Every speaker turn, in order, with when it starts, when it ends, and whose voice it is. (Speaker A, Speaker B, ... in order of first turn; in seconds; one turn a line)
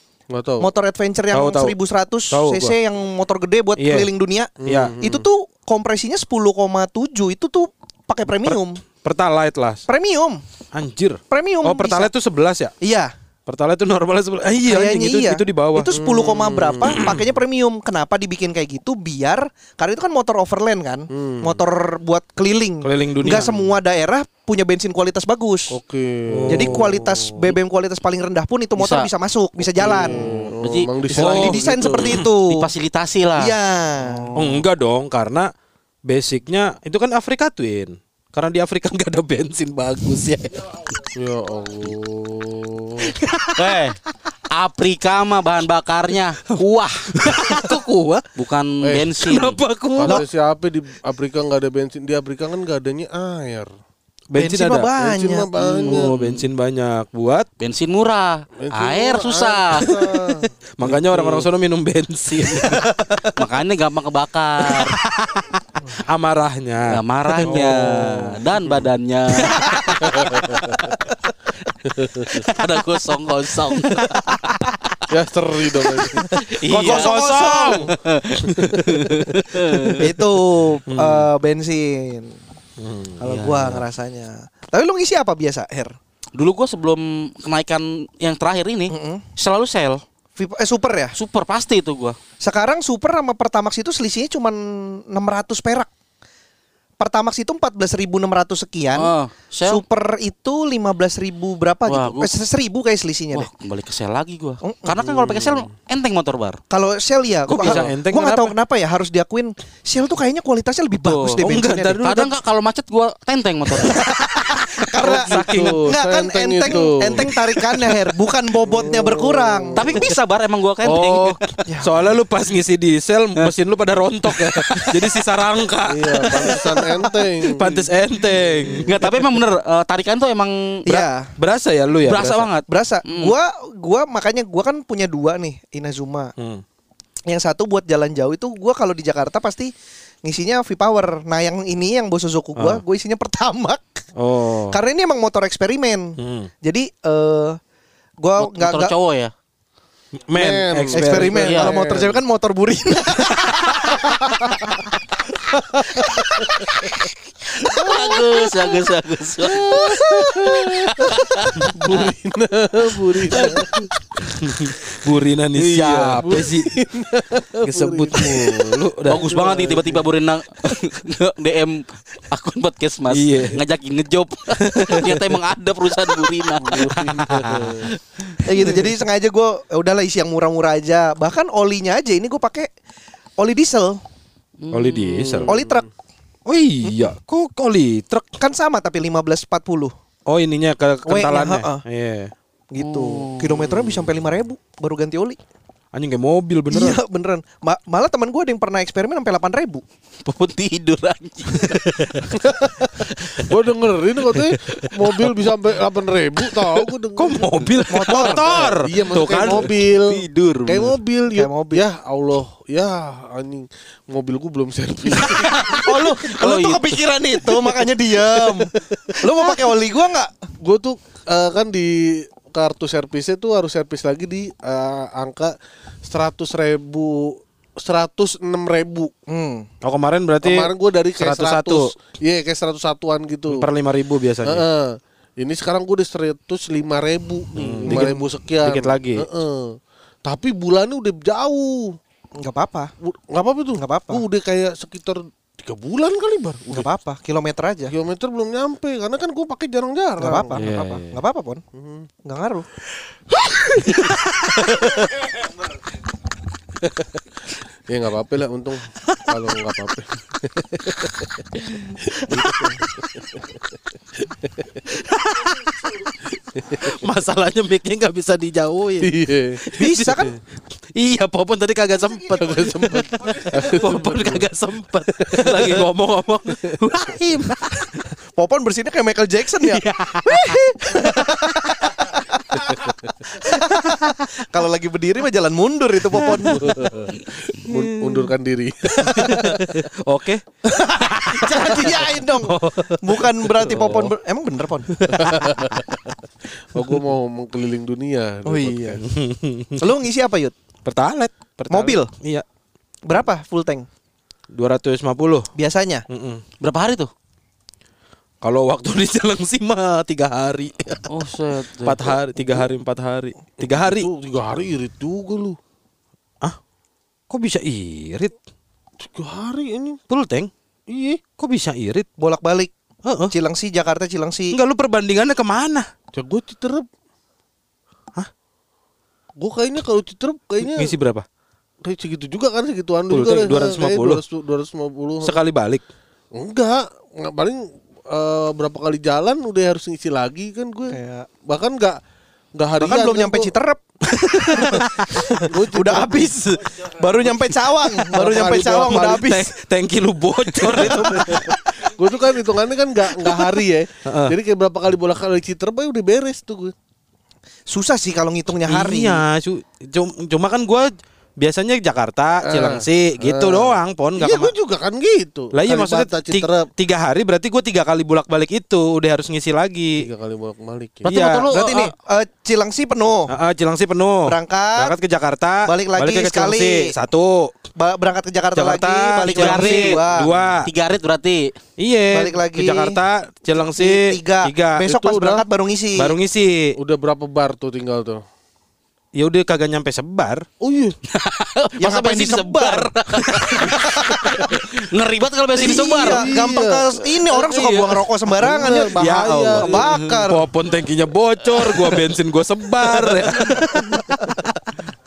Speaker A: 0.3-0.7
Speaker B: 0.6-8.8
Speaker C: 1.3-1.8
Speaker C: 2.3-2.8
Speaker C: 3.8-4.1
Speaker A: 4.6-5.3
Speaker C: 4.6-5.0
Speaker C: 8.4-9.8
Speaker B: 9.9-10.4
Speaker C: 10.7-12.7
Speaker B: 11.3-12.1
Speaker B: 12.8-13.1
Speaker C: 13.5-15.9
Speaker B: 14.7-25.8
Speaker A: 15.9-17.1
Speaker A: 21.1-21.6
Speaker C: 22.8-23.7
Speaker A: 25.7-26.9
Speaker C: 26.3-27.3
Speaker B: 26.5-30.3
Speaker D: 28.8-29.1
Speaker A: 29.8-32.2
Speaker C: 30.1-30.5
Speaker D: 30.6-30.9
Speaker B: 31.1-32.7
Speaker C: 31.1-32.3
Speaker D: 32.4-33.5
Speaker B: 33.4-34.6
Speaker C: 34.3-35.5
Speaker C: 36.0-40.8
Speaker A: 41.1-43.1
Speaker C: 43.0-43.8
Speaker D: 43.5-44.0
Speaker D: 44.5-47.1
Speaker C: 47.1-48.3
Speaker D: 48.4-49.6
Speaker A: 48.8-49.1
Speaker C: 49.2-50.2
Speaker A: 50.0-53.7
Speaker C: 54.3-54.9
Speaker B: 54.4-55.5
Speaker A: 55.0-56.1
Speaker D: 55.6-56.5
Speaker C: 55.9-57.5
Speaker D: 57.6-60.0
Speaker A: 58.6-60.9
Speaker C: 60.8-62.9
Speaker D: 60.9-61.5
Speaker D: 62.3-65.0
Speaker B: 62.9-63.3
Speaker C: 65.0-65.5
Speaker C: 66.0-68.4
Speaker D: 66.9-70.4
Speaker C: 69.4-70.2
Speaker B: 69.7-69.9
Speaker A: 70.0-70.8
Speaker A: 72.0-72.3
Speaker D: 72.2-75.0
Speaker A: 75.1-76.3
Speaker B: 76.2-77.9
Speaker D: 76.3-80.1
Speaker C: 76.7-77.9
Speaker C: 78.6-79.9
Speaker B: 80.0-82.4
Speaker C: 80.9-81.3
Speaker C: 82.8-83.2
Speaker B: 83.2-86.0
Speaker D: 83.2-83.8
Speaker D: 86.3-90.0
Speaker B: 88.9-89.2
Speaker B: 90.4-91.2
Speaker D: 91.2-92.2
Speaker B: 92.4-95.9
Speaker B: 97.0-99.1
Speaker D: 99.0-99.8
Speaker B: 99.7-103.5
Speaker D: 101.9-102.3
Speaker D: 103.3-106.6
Speaker B: 104.6-105.1
Speaker A: 105.1-105.7
Speaker B: 106.7-112.0
Speaker C: 107.5-108.5
Speaker D: 110.9-111.5
Speaker C: 111.4-112.3
Speaker D: 112.0-114.0
Speaker B: 113.7-120.1
Speaker C: 115.0-115.9
Speaker A: 115.0-117.3
Speaker A: 118.6-120.1
Speaker D: 119.8-121.4
Speaker C: 120.8-129.2
Speaker B: 121.7-121.9
Speaker D: 124.3-124.9
Speaker A: 125.9-127.6
Speaker D: 127.6-127.9
Speaker D: 128.8-131.0
Speaker B: 130.9-131.3
Speaker C: 131.4-132.5
Speaker D: 132.1-133.3
Speaker B: 132.7-136.3
Speaker C: 136.4-136.6
Speaker B: 137.3-139.7
Speaker B: 140.2-144.0
Speaker C: 142.6-142.8
Speaker C: 144.2-144.8
Speaker B: 144.7-147.6
Speaker C: 146.2-146.5
Speaker B: 148.2-148.9
Speaker D: 148.4-149.3
Speaker C: 150.3-151.5
Speaker A: 150.3-152.2
Speaker B: 150.9-154.9
Speaker D: 151.4-151.8
Speaker B: 155.6-156.3
Speaker D: 157.6-162.1
Speaker A: 157.8-158.7
Speaker A: 159.4-163.8
Speaker D: 163.3-163.8
Speaker C: 164.4-166.8
Speaker D: 165.6-166.4
Speaker A: 166.2-170.1
Speaker C: 167.6-169.8
Speaker D: 169.1-178.7
Speaker C: 173.1-173.6
Speaker C: 174.6-175.4
Speaker A: 176.6-177.9
Speaker C: 177.2-177.8
Speaker B: 178.4-182.7
Speaker B: 183.4-184.0
Speaker D: 184.6-185.4
Speaker C: 184.7-185.6
Speaker A: 185.3-185.9
Speaker B: 185.5-185.8
Speaker C: 186.5-188.3
Speaker B: 188.4-189.9
Speaker C: 190.3-192.3
Speaker B: 191.1-191.8
Speaker B: 192.7-195.4
Speaker D: 192.8-193.9
Speaker C: 195.9-197.0
Speaker B: 196.7-199.8
Speaker D: 200.2-202.2
Speaker A: 202.4-202.7
Speaker A: 203.4-207.5
Speaker C: 207.2-209.9
Speaker B: 207.9-208.6
Speaker A: 208.2-215.8
Speaker D: 209.8-210.9
Speaker B: 211.3-211.8
Speaker D: 215.1-217.8
Speaker B: 215.7-220.3
Speaker A: 218.7-219.8
Speaker A: 220.6-225.5
Speaker A: 226.1-229.1
Speaker B: 229.3-229.7
Speaker C: 229.8-231.9
Speaker A: 230.4-233.7
Speaker C: 233.5-234.7
Speaker A: 234.4-242.0
Speaker C: 237.6-239.3
Speaker B: 237.9-238.2
Speaker B: 242.4-242.9
Speaker A: 243.0-246.9
Speaker B: 243.8-244.2
Speaker B: 246.7-247.9
Speaker A: 247.9-250.6
Speaker B: 250.2-251.6
Speaker C: 250.5-251.2
Speaker A: 251.7-252.1
Speaker B: 252.2-252.7
Speaker A: 257.9-261.5
Speaker A: 262.0-263.3
Speaker B: 262.3-262.8
Speaker A: 264.5-264.9
Speaker C: 264.9-269.1
Speaker A: 266.6-266.9
Speaker A: 269.0-269.6
Speaker C: 269.6-270.4
Speaker B: 269.7-270.4
Speaker C: 271.0-278.1
Speaker A: 272.3-274.5
Speaker A: 275.2-275.9
Speaker B: 278.4-286.8
Speaker C: 279.6-281.4
Speaker C: 283.8-284.1
Speaker C: 286.1-288.3
Speaker A: 286.5-289.5
Speaker C: 289.0-294.1
Speaker B: 289.0-289.6
Speaker B: 290.7-294.9
Speaker C: 294.9-295.8
Speaker A: 295.1-295.8
Speaker A: 296.6-299.0
Speaker B: 298.5-299.0
Speaker C: 299.0-299.9
Speaker B: 299.8-300.6
Speaker C: 300.9-302.4
Speaker B: 301.7-302.1
Speaker B: 303.1-303.9
Speaker C: 304.5-305.5
Speaker B: 305.6-306.1
Speaker C: 306.1-306.4
Speaker D: 306.6-307.1
Speaker C: 308.4-311.1
Speaker D: 311.1-312.1
Speaker C: 311.8-314.1
Speaker A: 313.8-315.6
Speaker C: 317.3-318.4
Speaker A: 319.0-320.0
Speaker C: 320.1-320.5
Speaker A: 320.9-321.2
Speaker C: 321.4-322.1
Speaker B: 322.2-322.7
Speaker C: 323.1-323.3
Speaker B: 323.3-324.6
Speaker C: 324.5-325.9
Speaker A: 326.1-326.9
Speaker A: 329.4-330.9
Speaker C: 330.6-331.3
Speaker A: 331.8-335.4
Speaker C: 333.1-334.2
Speaker C: 335.2-335.8
Speaker A: 336.3-342.0
Speaker B: 340.9-341.3
Speaker A: 342.6-343.5
Speaker B: 342.8-349.5
Speaker C: 344.3-345.2
Speaker A: 345.3-346.4
Speaker A: 348.1-349.1
Speaker C: 348.1-351.6
Speaker B: 350.6-351.5
Speaker A: 351.9-356.7
Speaker C: 354.1-354.4
Speaker B: 357.7-359.2
Speaker C: 358.7-364.5
Speaker A: 362.4-366.7
Speaker C: 365.5-370.1
Speaker A: 370.0-371.2
Speaker C: 371.0-371.5
Speaker D: 371.1-371.9
Speaker B: 371.3-373.3
Speaker C: 373.3-377.5
Speaker B: 374.3-374.9
Speaker B: 375.7-376.9
Speaker B: 377.8-380.3
Speaker C: 378.6-380.7
Speaker D: 379.3-380.1
Speaker D: 380.6-381.5
Speaker C: 381.8-384.9
Speaker B: 382.1-383.0
Speaker B: 383.7-386.1
Speaker A: 384.9-385.4
Speaker C: 386.0-386.8
Speaker A: 386.8-388.2
Speaker C: 389.1-390.5
Speaker A: 390.6-391.0
Speaker D: 391.1-396.3
Speaker B: 391.8-392.9
Speaker B: 393.5-394.5
Speaker B: 395.5-400.5
Speaker A: 396.0-400.0
Speaker C: 399.0-404.0
Speaker D: 401.6-401.9
Speaker D: 403.1-403.4